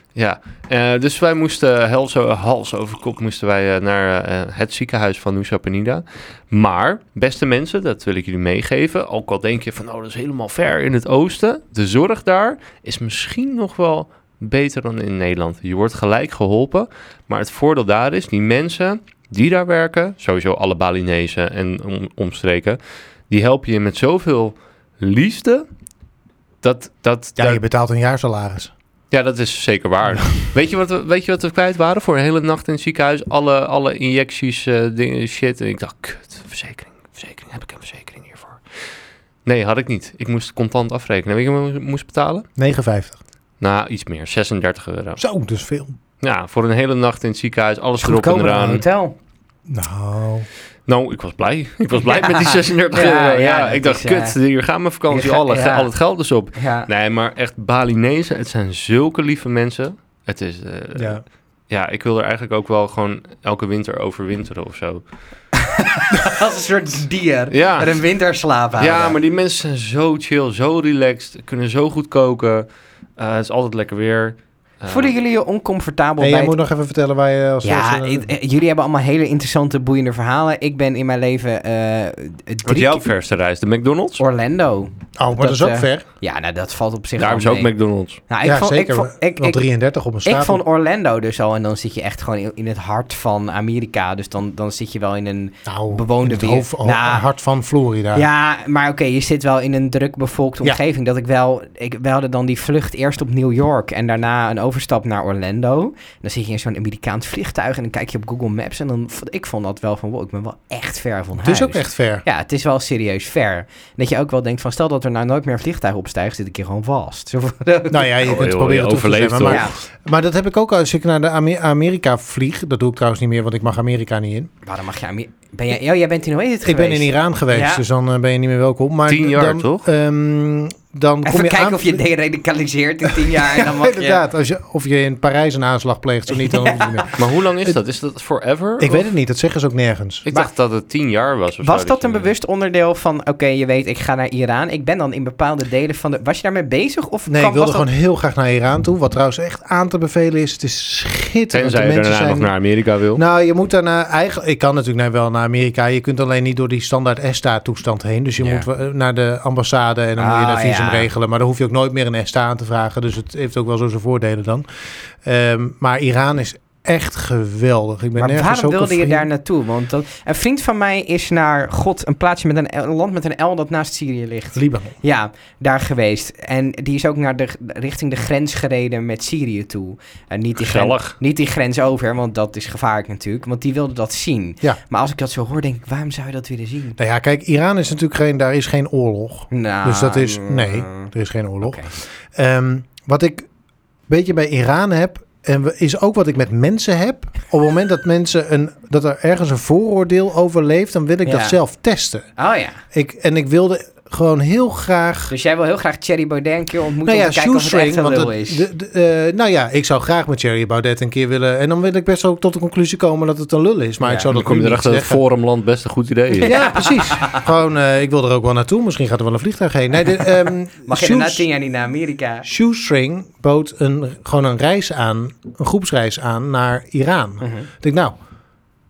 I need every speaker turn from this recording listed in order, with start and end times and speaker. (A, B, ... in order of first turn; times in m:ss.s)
0:00.1-0:25.7 A
0:26.6-0:27.6 A
0:27.4-0:28.7 B
0:29.1-0:38.6 A
0:39.4-0:42.5 A
0:42.6-0:43.2 B
0:43.6-0:45.2 A
0:45.2-0:46.0 B
0:46.2-0:48.8 A
0:48.0-0:49.1 C
0:49.7-0:50.5 B
0:50.9-1:05.0 A
0:52.0-0:54.4 C
0:55.1-0:55.9 C
0:56.6-0:56.9 C
1:00.9-1:01.2 B
1:05.6-1:09.2 C
1:07.5-1:08.0 A
1:08.8-1:15.1 A
1:14.9-1:16.6 C
1:16.2-1:18.3 B
1:17.6-1:23.0 C
1:22.6-1:24.2 A
1:24.2-1:27.7 C
1:25.2-1:26.0 B
1:27.2-1:28.2 A
1:28.3-1:29.6 C
1:28.4-1:30.6 B
1:30.2-1:37.2 C
1:35.7-1:38.3 B
1:38.1-1:58.2 C
1:51.4-1:52.2 B
1:57.9-2:04.5 B
1:58.2-1:59.7 A
1:59.5-1:59.7 C
2:04.6-2:07.8 C
2:06.6-2:12.0 B
2:09.1-2:09.9 A
2:11.2-2:14.2 C
2:13.1-2:17.8 B
2:16.4-2:17.1 C
2:17.2-2:19.1 A
2:18.8-2:20.3 B
2:20.3-2:22.3 A
2:21.6-2:27.9 C
2:27.3-2:32.5 B
2:31.5-2:33.2 A
2:33.1-2:44.6 B
2:38.4-2:38.7 C
2:40.2-2:41.1 C
2:45.2-2:49.3 B
2:48.2-3:07.0 C
2:54.6-2:55.0 B
3:00.6-3:01.2 A
3:07.0-3:13.5 B
3:09.5-3:11.1 C
3:11.6-3:11.9 C
3:14.1-3:22.3 B
3:21.2-3:21.6 C
3:22.4-3:22.8 C
3:22.9-3:25.3 B
3:25.3-3:28.6 C
3:27.0-3:35.2 B
3:34.0-3:34.3 C
3:34.3-3:36.6 A
3:36.4-3:37.4 C
3:36.4-3:41.4 B
3:40.1-3:42.4 C
3:42.4-3:48.1 B
3:47.4-3:47.7 C